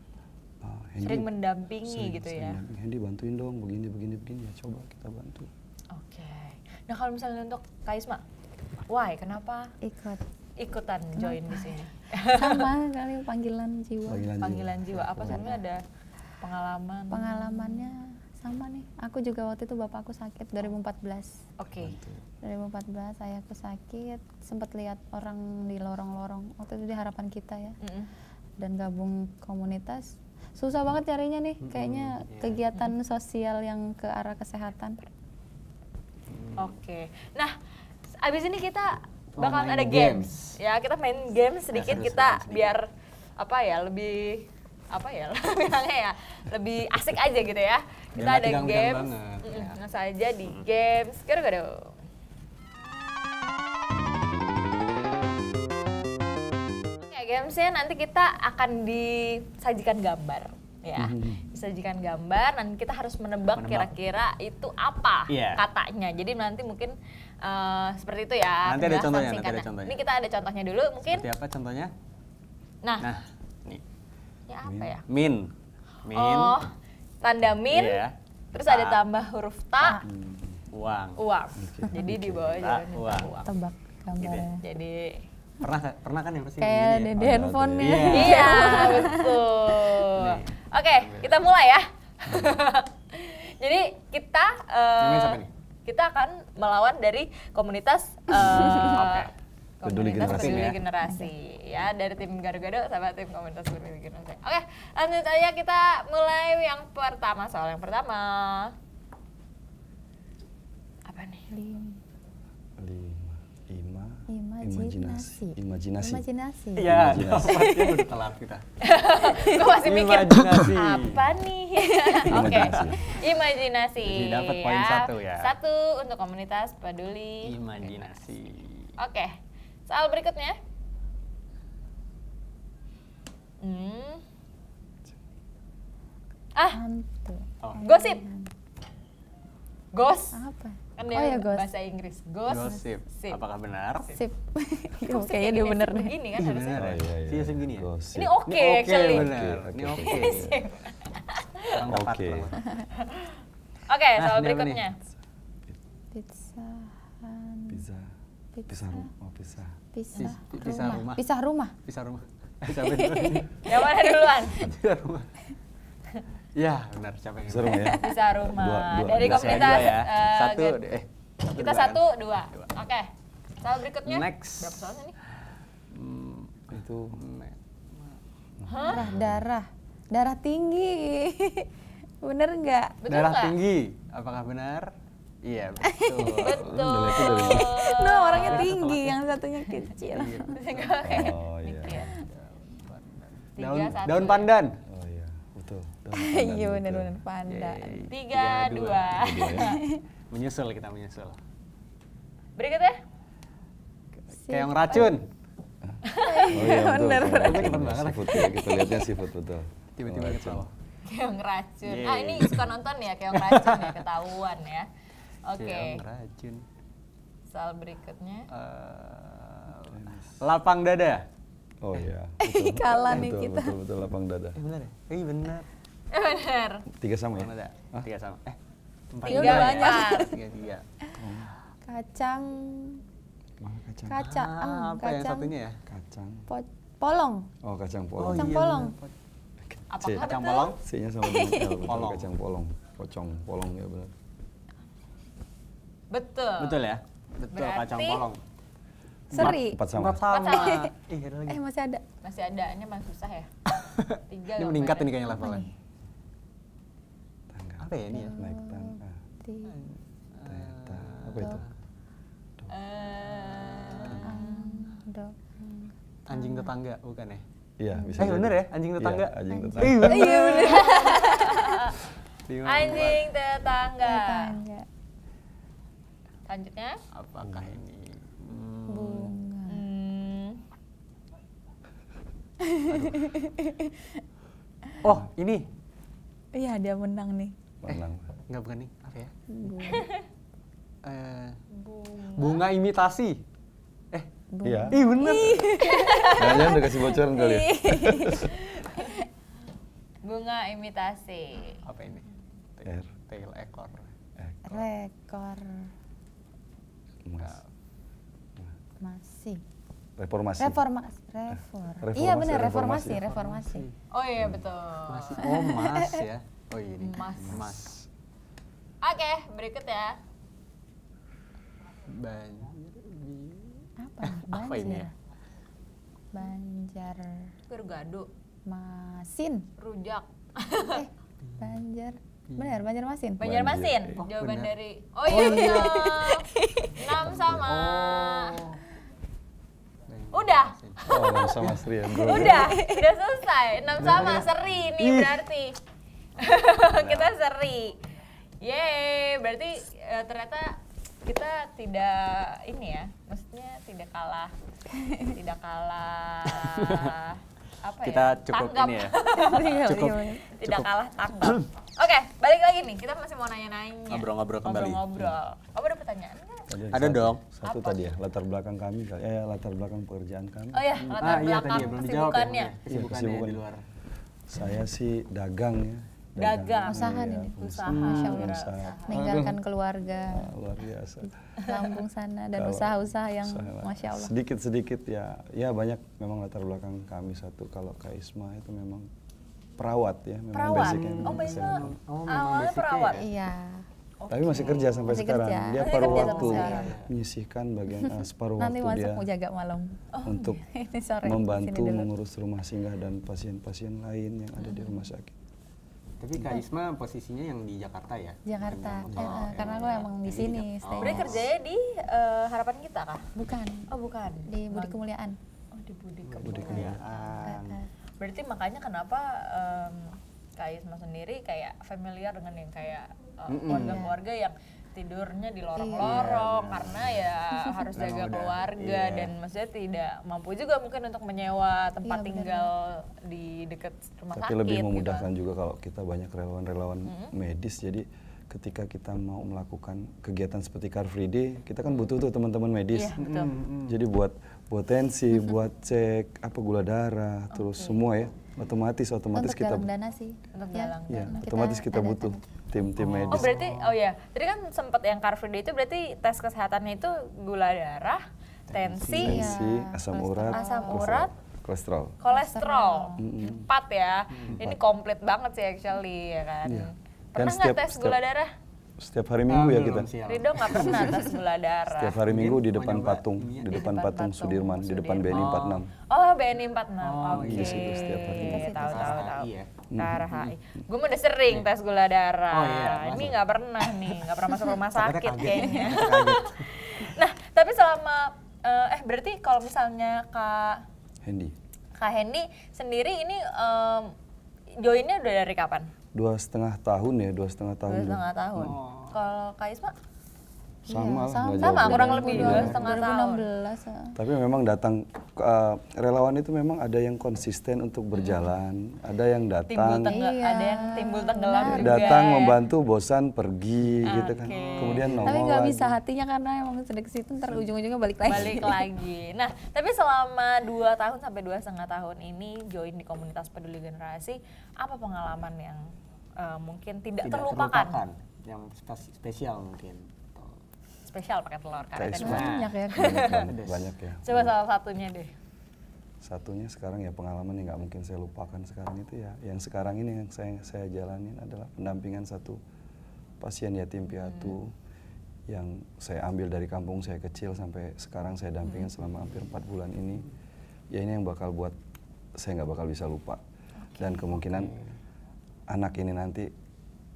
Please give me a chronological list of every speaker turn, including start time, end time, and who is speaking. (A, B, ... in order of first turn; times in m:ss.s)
0:00.6-0:01.3 A
0:01.0-0:02.6 B
0:01.8-0:05.5 A
0:05.9-0:08.2 B
0:08.9-0:09.7 B
0:09.8-0:10.2 C
0:10.6-0:12.7 B
0:11.2-0:14.3 C
0:14.1-0:15.6 A
0:14.4-0:15.8 B
0:16.4-0:17.9 B
0:17.1-0:21.4 C
0:21.6-0:22.0 B
0:21.8-0:22.2 A
0:22.4-0:27.8 C
0:27.8-0:28.1 B
0:28.6-0:35.0 C
0:31.6-0:32.6 D
0:36.3-0:36.7 D
0:36.6-0:37.5 B
0:38.2-0:52.0 B
0:39.3-0:40.6 D
0:41.7-0:42.7 D
0:48.2-0:49.8 D
0:57.0-1:11.2 B
1:01.0-1:01.4 A
1:03.6-1:03.9 D
1:05.3-1:05.6 D
1:08.6-1:10.0 D
1:11.1-1:11.9 D
1:13.0-1:13.8 D
1:14.5-1:15.0 B
1:14.6-1:15.0 A
1:15.1-1:15.5 D
1:16.0-1:16.6 D
1:16.1-1:20.0 B
1:17.7-1:19.0 D
1:20.0-1:20.6 A
1:20.7-1:21.2 D
1:21.2-1:23.5 B
1:21.6-1:22.6 A
1:22.0-1:23.3 D
1:23.4-1:24.6 C
1:24.2-1:24.5 D
1:24.6-1:25.2 B
1:25.6-1:27.2 D
1:26.6-1:29.4 C
1:27.1-1:28.2 A
1:27.8-1:29.1 D
1:28.1-1:48.7 B
1:30.0-1:31.4 D
1:35.0-1:35.5 D
1:38.4-1:39.3 D
1:39.8-1:40.8 A
1:40.2-1:40.8 D
1:41.0-1:41.3 C
1:51.1-1:51.5 B
1:51.5-1:52.0 C
1:52.8-1:56.2 A
1:54.3-1:57.1 C
1:56.8-1:58.6 D
1:56.8-1:57.6 A
1:57.5-1:58.0 B
1:58.8-2:07.9 B
1:59.4-2:01.4 D
2:02.2-2:03.2 A
2:02.3-2:03.0 D
2:04.0-2:05.5 D
2:07.4-2:08.9 D
2:09.0-2:09.4 B
2:09.9-2:10.6 B
2:13.6-2:14.2 B
2:16.6-2:16.8 B
2:16.7-2:18.5 C
2:17.8-2:18.2 B
2:19.9-2:20.4 B
2:20.3-2:21.7 C
2:21.0-2:23.4 B
2:22.5-2:24.1 D
2:24.0-2:26.1 C
2:25.1-2:26.9 B
2:26.4-2:27.9 D
2:26.8-2:28.4 A
2:28.1-2:29.3 B
2:28.4-2:30.5 D
2:29.0-2:30.6 A
2:30.0-2:31.8 B
2:31.7-2:32.6 D
2:31.9-2:32.6 A
2:32.9-2:35.0 B
2:34.2-2:34.8 D
2:36.1-2:37.8 C
2:37.7-2:38.1 A
2:38.5-2:39.1 C
2:38.7-2:39.8 A
2:39.9-2:41.7 C
2:40.2-2:41.2 D
2:41.8-2:43.6 D
2:42.8-2:43.5 C
2:43.6-2:44.7 B
2:44.4-2:45.3 D
2:46.6-2:48.0 D
2:47.4-2:50.0 A
2:47.7-2:48.0 C
2:48.0-2:50.8 B
2:49.1-2:52.7 D
2:51.5-2:55.2 B
2:54.0-2:55.0 D
2:55.9-2:58.2 D
2:56.7-2:57.2 A
2:58.6-2:59.4 A
2:58.6-2:59.0 B
2:58.8-3:03.0 C
3:03.0-3:03.6 B
3:03.1-3:04.9 D
3:05.4-3:06.7 D
3:05.8-3:06.4 C
3:06.4-3:08.7 B
3:06.4-3:07.8 A
3:07.1-3:10.6 C
3:08.3-3:09.2 D
3:10.0-3:10.9 D
3:10.5-3:12.1 B
3:11.0-3:12.1 A
3:11.9-3:12.2 C
3:12.1-3:14.8 D
3:13.6-3:14.5 B
3:14.8-3:17.2 A
3:16.1-3:18.1 C
3:17.5-3:19.4 D
3:18.1-3:19.8 B
3:19.1-3:19.8 A
3:19.6-3:20.0 C
3:20.3-3:21.4 D
3:22.6-3:23.0 B
3:24.3-3:25.2 D
3:24.4-3:25.2 C
3:25.9-3:30.6 A
3:26.0-3:26.6 B
3:26.2-3:27.7 C
3:26.7-3:28.5 D
3:28.3-3:29.1 C
3:30.0-3:30.7 D
3:31.0-3:34.9 B
3:31.8-3:32.7 D
3:33.3-3:34.1 D
3:35.4-3:36.0 B
3:35.6-3:36.6 D
3:37.5-3:38.5 B
3:38.5-3:41.2 D
3:39.7-3:40.4 A
3:41.8-3:44.6 A
3:42.4-3:43.8 C
3:44.6-3:45.7 D
3:46.1-3:46.8 B
3:47.0-3:48.1 A
3:47.4-3:48.6 D
3:49.1-3:50.8 D
3:49.2-3:50.3 B
3:49.3-3:50.4 C
3:51.2-3:51.5 A
3:51.8-3:53.0 C
3:53.6-3:54.2 A
3:54.0-3:55.5 C
3:54.2-3:55.8 D
3:55.9-3:56.4 A
3:56.5-3:57.5 C
3:57.6-3:58.7 A
3:58.2-3:59.1 D
3:58.3-3:59.0 C
3:59.7-4:00.2 A
3:59.9-4:00.8 B
4:00.2-4:00.8 D
4:00.8-4:04.1 A
4:01.2-4:01.8 C
4:01.8-4:02.3 D
4:06.1-4:06.8 B
4:06.6-4:08.4 D
4:07.5-4:08.2 B
4:09.3-4:09.8 C
4:09.3-4:11.6 D
4:09.4-4:10.2 A
4:10.3-4:10.9 B
4:10.4-4:10.9 C
4:11.5-4:12.0 C
4:12.2-4:13.5 B
4:13.7-4:15.7 D
4:14.3-4:15.2 B
4:15.4-4:15.7 C
4:17.5-4:19.2 A
4:17.8-4:18.4 D
4:18.1-4:19.8 C
4:19.7-4:21.6 D
4:20.4-4:21.7 A
4:22.7-4:24.9 B
4:23.4-4:24.4 D
4:24.2-4:26.7 C
4:26.3-4:27.4 D
4:27.8-4:30.2 A
4:27.9-4:28.2 C
4:28.2-4:30.9 D
4:29.5-4:31.6 C
4:30.1-4:32.1 B
4:32.5-4:33.3 D
4:32.6-4:34.6 B
4:34.0-4:34.9 C
4:36.5-4:37.0 B
4:37.1-4:39.3 D
4:37.4-4:37.8 A
4:38.9-4:39.9 C
4:39.7-4:40.6 B
4:42.6-4:44.2 C
4:42.9-4:43.2 D
4:45.0-4:45.7 D
4:46.5-4:47.5 C
4:47.8-4:48.3 A
4:47.9-4:49.3 D
4:49.5-4:50.0 C
4:49.8-4:50.2 B
4:51.0-4:51.6 D
4:51.7-4:52.6 B
4:52.3-4:53.4 D
4:54.5-4:58.5 C
4:54.6-4:55.0 A
4:54.9-4:56.0 D
4:55.2-4:56.9 B
4:56.3-4:58.5 A
4:58.4-4:59.2 B
5:00.2-5:01.8 B
5:01.8-5:04.0 D
5:04.4-5:04.8 A
5:04.6-5:05.9 C
5:07.2-5:07.6 A
5:09.0-5:09.6 C
5:10.2-5:10.8 A
5:10.6-5:13.8 C
5:12.0-5:13.2 A
5:13.1-5:13.9 D
5:14.1-5:15.4 B
5:15.1-5:18.0 D
5:15.4-5:16.2 C
5:17.0-5:17.7 B
5:17.5-5:17.8 A
5:19.0-5:20.2 B
5:22.1-5:25.1 D
5:24.0-5:25.1 C
5:26.3-5:27.5 C
5:27.7-5:28.3 B
5:28.6-5:29.7 C
5:29.8-5:31.0 B
5:30.9-5:33.5 C
5:31.4-5:31.7 D
5:32.5-5:32.8 D
5:33.4-5:38.6 B
5:33.4-5:34.2 A
5:34.2-5:34.7 D
5:35.3-5:36.2 D
5:35.3-5:36.9 C
5:37.0-5:37.7 A
5:37.2-5:38.8 D
5:40.1-5:41.8 D
5:40.3-5:41.6 B
5:41.1-5:42.8 A
5:42.2-5:43.0 C
5:42.2-5:45.8 B
5:44.0-5:45.4 D
5:46.4-5:48.1 B
5:46.9-5:47.3 A
5:48.6-5:54.5 B
5:54.9-5:55.3 C
5:55.1-6:06.7 B
5:56.5-5:57.2 D
5:58.0-6:00.9 D
5:59.3-6:00.5 C
6:01.4-6:01.7 D
6:04.1-6:05.1 D
6:06.7-6:10.9 A
6:06.9-6:07.4 D
6:07.6-6:08.0 B
6:10.7-6:12.8 B
6:11.0-6:13.8 D
6:12.9-6:13.6 A
6:14.5-6:19.6 A
6:16.4-6:19.3 B
6:16.8-6:20.5 C
6:17.9-6:18.4 D
6:19.1-6:19.5 D
6:20.2-6:21.3 A
6:21.6-6:24.3 C
6:22.5-6:29.1 A
6:29.8-6:32.0 A
6:30.5-6:33.2 B
6:30.7-6:33.3 D
6:33.1-6:33.8 C
6:34.2-6:35.1 B
6:34.3-6:39.2 A
6:34.5-6:35.2 D
6:35.0-6:36.9 C
6:35.8-6:36.9 B
6:36.0-6:37.1 D
6:38.0-6:42.1 C
6:40.1-6:40.5 B
6:40.2-6:40.6 A
6:41.2-6:45.3 A
6:46.2-6:51.5 D
6:46.4-6:46.6 C
6:48.4-6:51.4 C
6:49.1-6:49.5 A
6:49.6-6:49.9 B
6:51.0-6:53.3 B
6:53.3-6:53.9 C
6:53.9-6:55.0 B
6:54.4-6:55.4 C
6:55.7-6:57.4 B
6:56.4-6:57.0 A
6:56.4-6:57.8 D
6:56.9-6:57.9 C
6:58.2-7:15.3 B
7:03.5-7:04.1 D
7:03.7-7:04.2 C
7:05.8-7:06.2 C
7:06.0-7:07.3 D
7:07.5-7:07.8 C
7:07.9-7:09.3 D
7:12.0-7:12.7 C
7:14.3-7:23.2 A
7:17.0-7:17.3 B
7:22.9-7:23.5 B
7:23.2-7:24.0 D
7:23.8-7:29.9 A
7:27.5-7:28.0 B
7:29.3-7:32.6 C
7:30.5-7:31.4 B
7:31.1-7:33.5 A
7:33.0-7:33.9 D
7:33.3-7:39.6 B
7:38.7-7:39.5 D
7:39.2-7:41.2 C
7:39.2-7:42.2 A
7:40.5-7:41.3 B
7:42.2-7:48.5 B
7:42.3-7:43.3 C
7:43.2-7:43.7 A
7:44.3-7:44.6 D
7:44.5-7:44.8 A
7:46.6-7:48.2 A
7:49.0-7:50.1 A
7:49.5-7:51.4 D
7:50.2-7:52.2 B
7:51.9-7:55.9 A
7:52.2-7:53.9 D
7:53.7-7:55.6 B
7:55.3-7:55.8 D
7:56.1-8:10.8 B
7:57.0-7:59.7 D
7:57.3-7:58.7 A
7:58.2-7:59.2 C
7:59.9-8:00.5 A
8:02.5-8:07.1 D
8:11.2-8:11.5 A
8:12.0-8:14.1 B
8:14.8-8:15.9 B
8:16.1-8:18.2 A
8:17.9-8:19.9 B
8:18.6-8:19.2 D
8:20.8-8:24.2 C
8:20.9-8:23.0 A
8:21.6-8:23.4 B
8:24.1-8:30.2 A
8:28.1-8:28.4 B
8:29.7-8:32.6 B
8:30.1-8:32.3 C
8:31.6-8:36.0 A
8:34.0-8:35.4 D
8:34.0-8:35.2 B
8:35.2-8:38.8 C
8:38.2-8:45.8 B
8:46.4-8:48.0 B
8:47.2-8:50.6 D
8:51.1-8:53.5 B
8:51.9-8:54.5 A
8:52.2-8:53.2 C
8:52.2-8:52.7 D
8:53.3-8:53.9 D
8:54.2-8:55.3 B
8:56.2-9:02.6 A
9:03.4-9:04.7 A
9:04.2-9:04.5 B
9:05.5-9:10.3 A
9:10.9-9:11.8 A
9:12.4-9:13.4 A
9:13.9-9:14.3 B
9:14.0-9:14.8 A
9:14.3-9:14.9 D
9:15.7-9:16.5 A